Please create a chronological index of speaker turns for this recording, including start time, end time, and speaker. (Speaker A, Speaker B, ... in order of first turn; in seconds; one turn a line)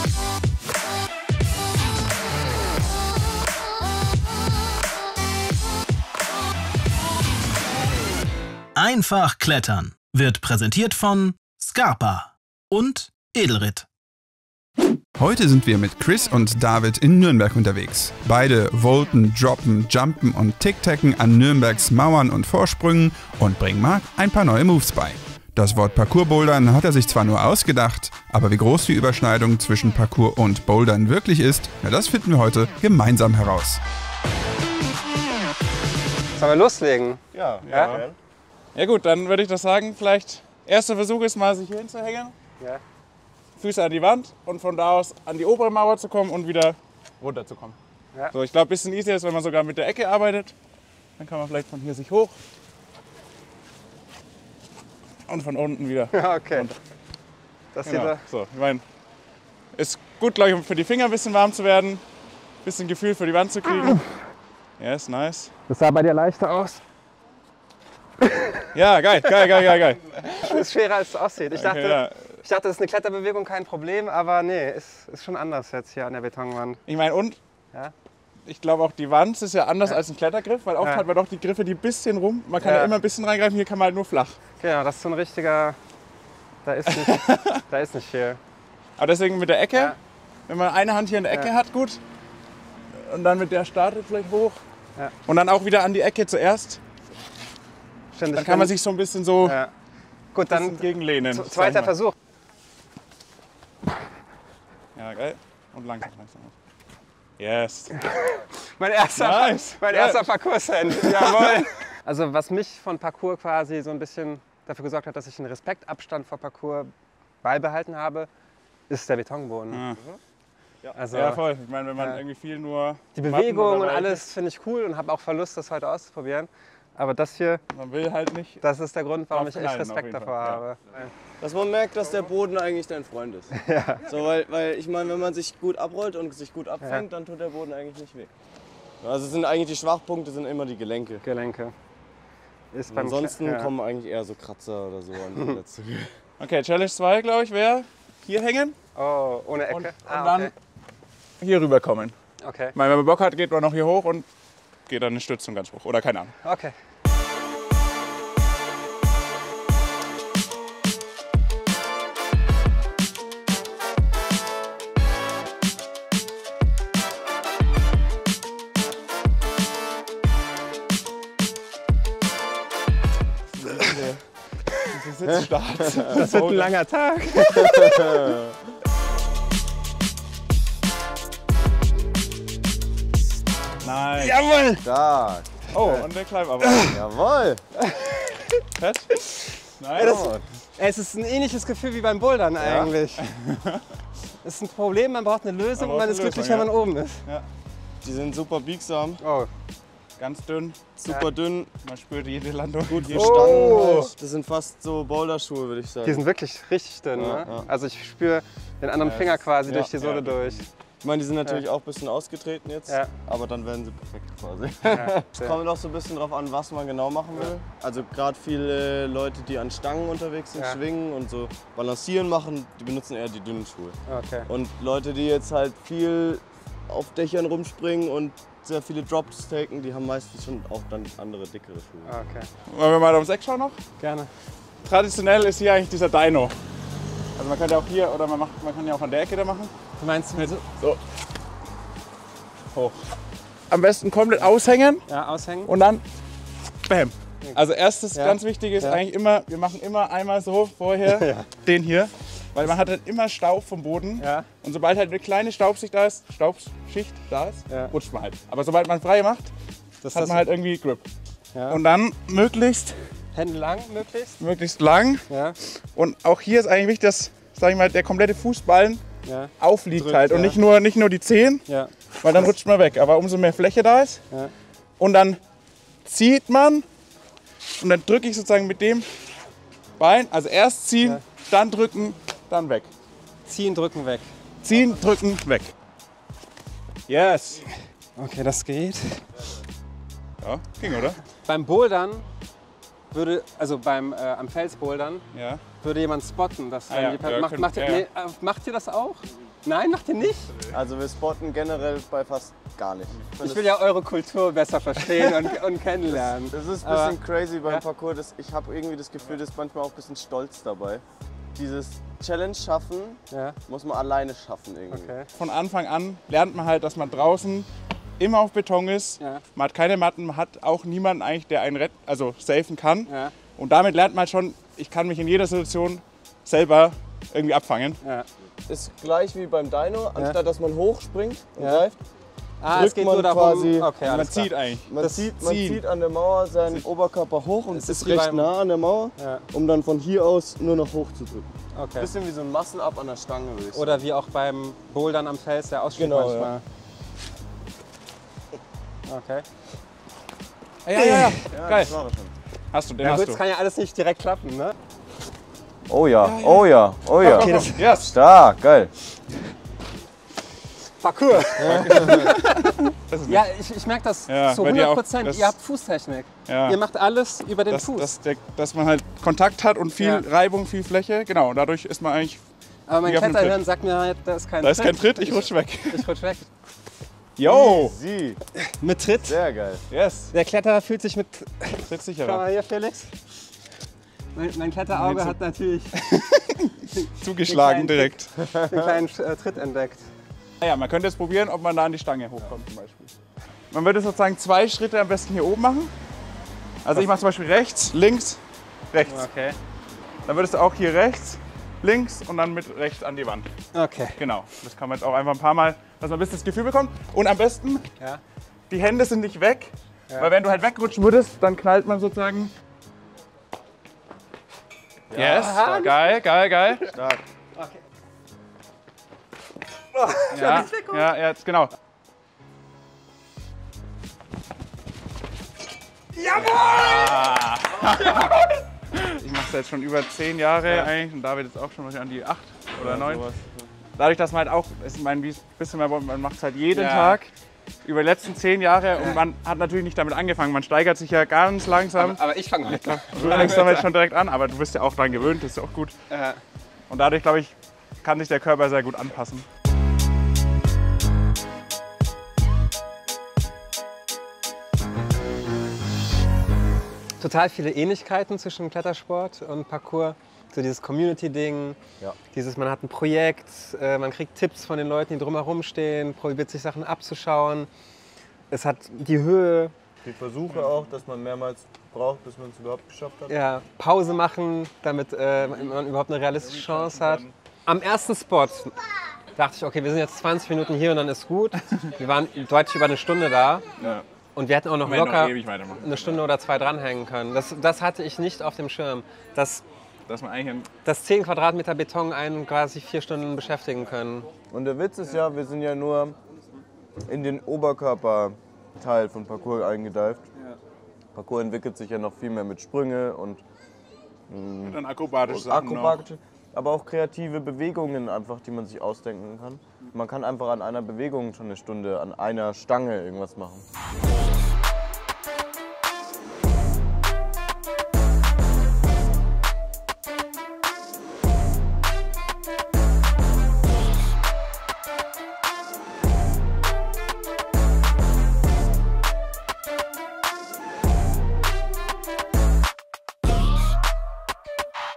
Speaker A: 8.8-13.9
Speaker B: 15.2-33.8
Speaker C: 36.4-37.9
Speaker D: 37.3-38.2
Speaker E: 37.6-38.1
Speaker E: 38.8-42.3
Speaker E: 43.6-47.8
Speaker E: 48.3-50.5
Speaker E: 51.2-52.4
Speaker E: 55.3-56.8
Speaker C: 56.1-56.7
Speaker C: 57.7-58.2
Speaker E: 57.8-58.8
Speaker E: 59.8-62.0
Speaker E: 62.6-64.0
Speaker E: 64.8-65.5
Speaker C: 65.7-66.8
Speaker C: 68.2-68.7
Speaker E: 68.7-70.6
Speaker C: 70.2-76.8
Speaker E: 71.5-72.4
Speaker E: 76.9-77.4
Speaker E: 78.5-84.4
Speaker C: 80.8-81.1
Speaker C: 82.6-83.0
Speaker C: 84.6-85.8
Speaker C: 86.6-88.4
Speaker E: 86.9-87.6
Speaker E: 89.0-90.0
Speaker E: 90.5-92.0
Speaker E: 93.0-94.6
Speaker E: 95.3-96.8
Speaker C: 98.1-98.8
Speaker E: 98.3-99.6
Speaker C: 99.4-99.7
Speaker C: 100.3-102.2
Speaker E: 100.5-101.9
Speaker E: 105.0-106.5
Speaker E: 107.4-107.9
Speaker C: 108.0-118.3
Speaker E: 109.2-110.3
Speaker E: 110.8-111.7
Speaker C: 118.9-119.8
Speaker E: 119.7-120.0
Speaker D: 119.9-120.2
Speaker C: 121.0-121.4
Speaker E: 121.1-124.3
Speaker C: 123.1-127.6
Speaker E: 127.7-128.6
Speaker C: 128.6-131.1
Speaker E: 129.3-130.6
Speaker D: 131.4-133.5
Speaker C: 133.5-134.1
Speaker D: 134.1-138.3
Speaker D: 139.0-141.2
Speaker C: 141.2-141.7
Speaker C: 142.7-143.7
Speaker D: 142.9-146.1
Speaker E: 146.4-148.8
Speaker C: 148.9-150.5
Speaker E: 149.7-150.5
Speaker E: 151.4-152.2
Speaker C: 152.4-152.8
Speaker E: 152.8-154.3
Speaker E: 154.9-156.3
Speaker C: 156.4-156.8
Speaker E: 173.5-174.2
Speaker E: 174.8-176.7
Speaker C: 176.1-178.4
Speaker D: 177.5-178.4
Speaker E: 183.8-184.4
Speaker C: 184.2-184.8
Speaker D: 184.8-185.5
Speaker E: 185.7-186.9
Speaker C: 186.7-186.9
Speaker D: 186.9-187.6
Speaker C: 187.9-188.5
Speaker E: 188.8-189.1
Speaker E: 189.8-190.3
Speaker C: 189.9-193.2
Speaker D: 190.0-190.4
Speaker D: 192.6-192.9
Speaker E: 193.2-193.8
Speaker C: 194.4-197.2
Speaker E: 195.8-196.7
Speaker D: 198.0-199.2
Speaker C: 199.2-199.5
Speaker E: 200.2-200.8
Speaker D: 201.0-201.7
Speaker E: 201.8-203.8
Speaker D: 202.9-206.2
Speaker C: 203.1-204.1
Speaker C: 206.0-210.7
Speaker D: 207.2-207.7
Speaker E: 209.0-210.7
Speaker D: 211.0-232.2
Speaker C: 212.9-213.1
Speaker C: 214.9-215.6
Speaker C: 224.1-224.5
Speaker C: 232.1-232.5
Speaker E: 232.7-233.8
Speaker C: 234.0-234.3
Speaker E: 234.8-236.6
Speaker E: 237.4-239.7
Speaker C: 240.0-240.6
Speaker E: 240.4-241.0
Speaker E: 242.7-243.0
Speaker E: 243.7-245.1
Speaker C: 245.1-245.7
Speaker E: 245.7-246.0
Speaker E: 246.9-259.5
Speaker C: 247.4-249.0
Speaker C: 251.1-251.5
Speaker C: 254.2-254.5
Speaker C: 257.7-257.9
Speaker C: 260.0-260.4
Speaker E: 260.1-261.1
Speaker C: 261.5-261.8
Speaker E: 261.7-263.1
Speaker C: 263.3-264.4
Speaker E: 264.4-269.0
Speaker C: 265.3-265.6
Speaker C: 269.2-270.6
Speaker E: 269.6-271.6
Speaker C: 271.7-271.9
Speaker E: 272.2-274.2
Speaker E: 275.0-275.4
Speaker E: 276.1-276.9
Speaker E: 277.8-279.1
Speaker E: 280.0-282.9
Speaker C: 283.5-284.3
Speaker E: 284.6-285.7
Speaker E: 287.1-287.6
Speaker C: 288.2-289.2
Speaker E: 290.4-291.2
Speaker C: 291.4-292.3
Speaker C: 293.1-295.2
Speaker E: 295.3-295.6
Speaker C: 295.8-300.5
Speaker E: 296.9-298.1
Speaker D: 300.7-303.8
Speaker C: 303.4-307.8
Speaker D: 306.1-311.0
Speaker D: 311.6-315.1
Speaker C: 313.3-313.6
Speaker C: 314.9-315.3
Speaker E: 315.3-328.0
Speaker C: 319.2-319.4
Speaker C: 323.1-323.3
Speaker C: 328.0-328.3
Speaker D: 328.7-332.0
Speaker C: 331.6-331.9
Speaker C: 332.6-335.3
Speaker D: 332.7-333.9
Speaker E: 334.0-335.8
Speaker D: 334.9-344.0
Speaker C: 337.7-338.5
Speaker C: 339.2-339.5
Speaker C: 341.7-342.1
Speaker C: 343.7-346.6
Speaker D: 346.0-346.6
Speaker C: 349.1-349.4
Speaker E: 350.9-351.9
Speaker C: 350.9-351.4
Speaker D: 351.5-352.3
Speaker E: 352.7-353.4
Speaker C: 353.0-354.8
Speaker D: 355.9-358.9
Speaker E: 356.2-358.1
Speaker C: 357.2-357.8
Speaker C: 361.0-368.1
Speaker E: 361.4-363.5
Speaker D: 361.6-362.3
Speaker E: 364.3-365.5
Speaker E: 366.5-366.8
Speaker E: 367.7-372.4
Speaker C: 370.0-370.2
Speaker C: 372.9-376.5
Speaker E: 373.0-373.6
Speaker E: 374.6-376.1
Speaker E: 377.4-378.0
Speaker D: 377.4-378.4
Speaker C: 378.6-379.4
Speaker D: 379.3-379.8
Speaker E: 379.9-380.3
Speaker C: 380.3-383.1
Speaker E: 381.9-382.4
Speaker C: 384.3-386.4
Speaker E: 384.9-385.4
Speaker C: 387.0-390.1
Speaker E: 387.1-388.3
Speaker D: 388.4-389.0
Speaker E: 390.6-393.1
Speaker E: 393.7-395.9
Speaker E: 396.8-398.4
Speaker E: 398.9-399.3
Speaker C: 399.1-399.6
Speaker E: 400.2-403.5
Speaker C: 403.7-404.2
Speaker E: 404.2-407.9
Speaker E: 408.7-412.5
Speaker D: 415.1-415.6
Speaker E: 415.1-416.9
Speaker C: 415.2-416.7
Speaker D: 416.9-417.3
Speaker C: 420.0-421.1
Speaker E: 420.3-421.7
Speaker C: 426.2-428.5
Speaker E: 426.4-428.4
Speaker E: 428.9-433.2
Speaker D: 432.8-433.7
Speaker E: 434.0-437.3
Speaker C: 436.7-437.2
Speaker E: 437.8-445.9
Speaker C: 441.9-443.9
Speaker C: 446.1-446.4
Speaker E: 446.9-449.5
Speaker C: 457.2-461.8
Speaker C: 462.3-467.7
Speaker C: 468.5-469.7
Speaker D: 470.0-473.3
Speaker C: 473.3-478.8
Speaker E: 475.4-475.8
Speaker E: 476.4-477.3
Speaker C: 479.4-483.7
Speaker E: 483.8-484.0
Speaker C: 484.4-489.6
Speaker E: 484.8-486.2
Speaker E: 490.1-490.7
Speaker C: 490.9-494.3
Speaker D: 494.5-496.2
Speaker D: 497.1-500.3
Speaker D: 501.1-503.4
Speaker D: 504.3-513.6
Speaker E: 504.7-506.0